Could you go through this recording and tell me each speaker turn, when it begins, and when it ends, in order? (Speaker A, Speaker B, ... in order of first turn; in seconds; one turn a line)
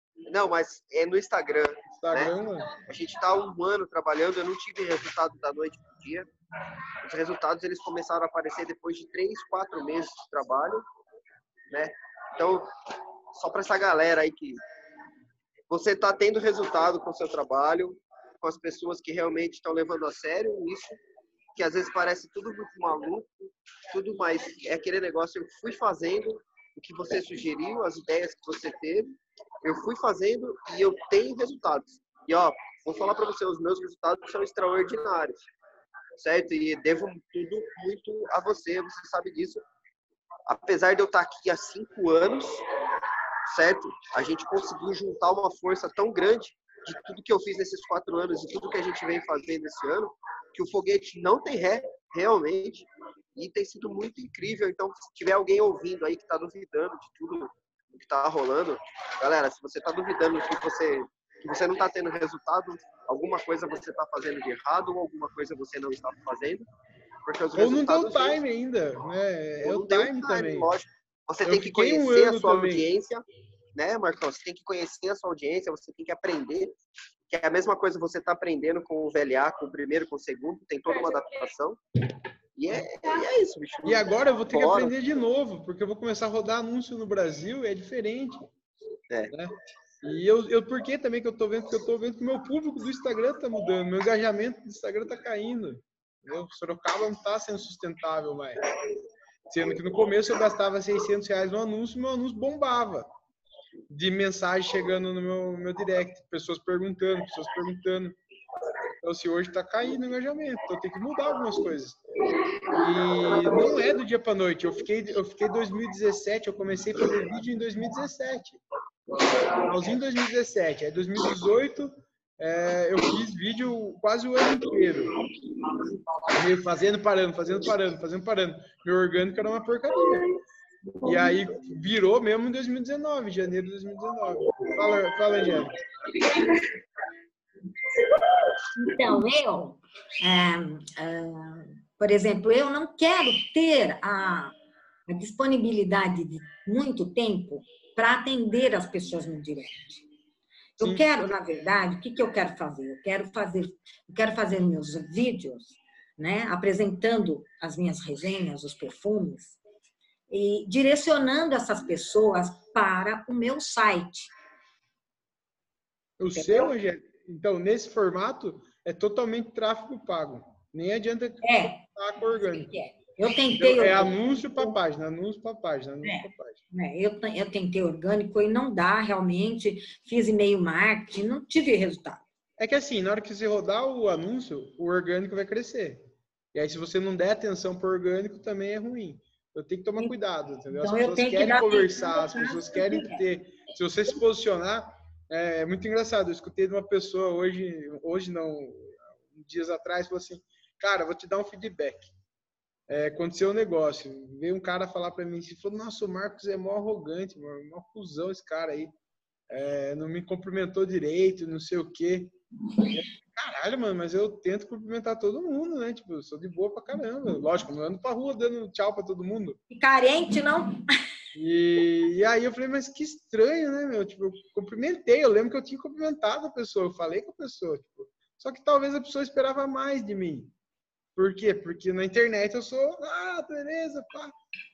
Speaker A: 0.3-6.3
Speaker B: 1.9-2.8
Speaker A: 7.0-10.8
Speaker A: 11.7-12.7
Speaker A: 13.3-14.6
Speaker A: 15.7-21.0
Speaker A: 21.6-35.5
Speaker A: 36.2-39.6
Speaker A: 40.5-42.6
Speaker A: 43.5-66.6
Speaker A: 67.2-68.4
Speaker B: 67.5-70.7
Speaker A: 69.6-73.2
Speaker B: 71.5-72.9
Speaker A: 73.7-76.8
Speaker A: 77.3-81.8
Speaker A: 82.5-84.9
Speaker B: 83.8-88.5
Speaker B: 89.3-98.6
Speaker B: 99.5-103.1
Speaker B: 103.9-108.2
Speaker B: 109.0-112.0
Speaker B: 112.8-118.6
Speaker B: 119.5-125.1
Speaker B: 126.3-130.4
Speaker B: 131.0-135.7
Speaker C: 138.8-144.5
Speaker C: 145.1-150.0
Speaker C: 150.8-159.6
Speaker B: 150.8-151.1
Speaker C: 160.3-164.3
Speaker B: 166.2-172.7
Speaker C: 166.3-166.7
Speaker C: 171.4-174.8
Speaker B: 173.6-176.6
Speaker C: 176.0-182.2
Speaker B: 182.6-186.0
Speaker B: 186.5-202.1
Speaker C: 190.7-193.2
Speaker B: 202.9-208.9
Speaker B: 209.5-212.3
Speaker B: 212.9-219.6
Speaker C: 219.7-220.8
Speaker B: 221.3-230.5
Speaker B: 231.2-234.3